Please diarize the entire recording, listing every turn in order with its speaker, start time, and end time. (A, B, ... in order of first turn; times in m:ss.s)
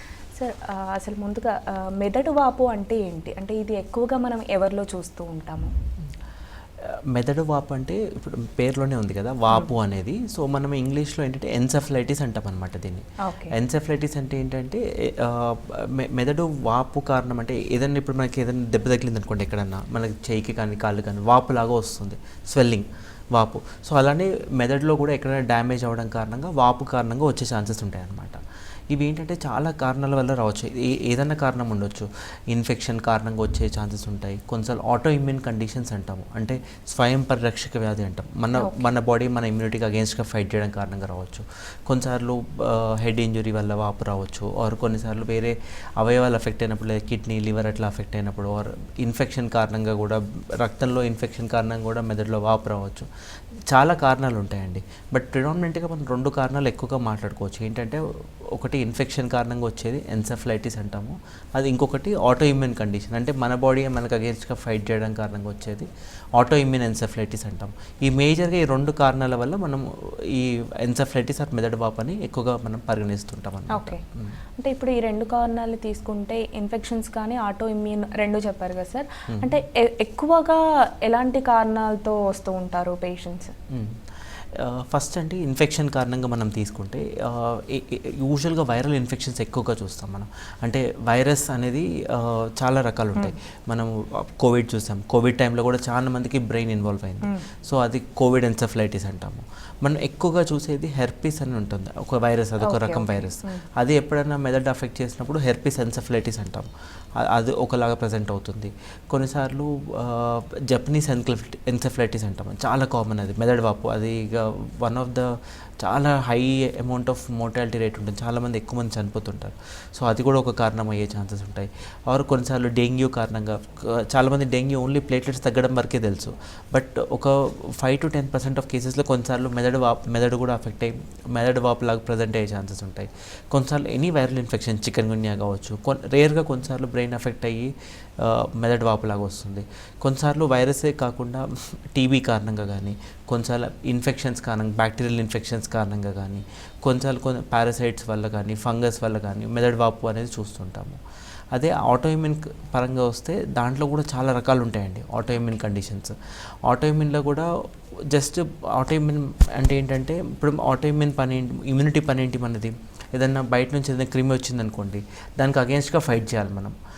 0:00.4-0:05.7 A
0:07.1-0:28.4 B
0:13.2-0:13.5 A
0:28.9-0:53.1 B
0:38.6-0:38.8 A
0:53.7-0:58.0 B
0:58.6-1:14.4 B
1:13.7-1:14.0 A
1:14.6-1:23.5 A
1:19.3-1:19.6 B
1:23.7-1:24.0 B
1:24.6-1:46.7 B
1:42.6-1:43.6 A
1:47.2-1:55.3 B
1:55.8-2:31.0 B
2:31.5-2:36.2 B
2:36.7-2:37.5 B
2:38.1-2:46.7 B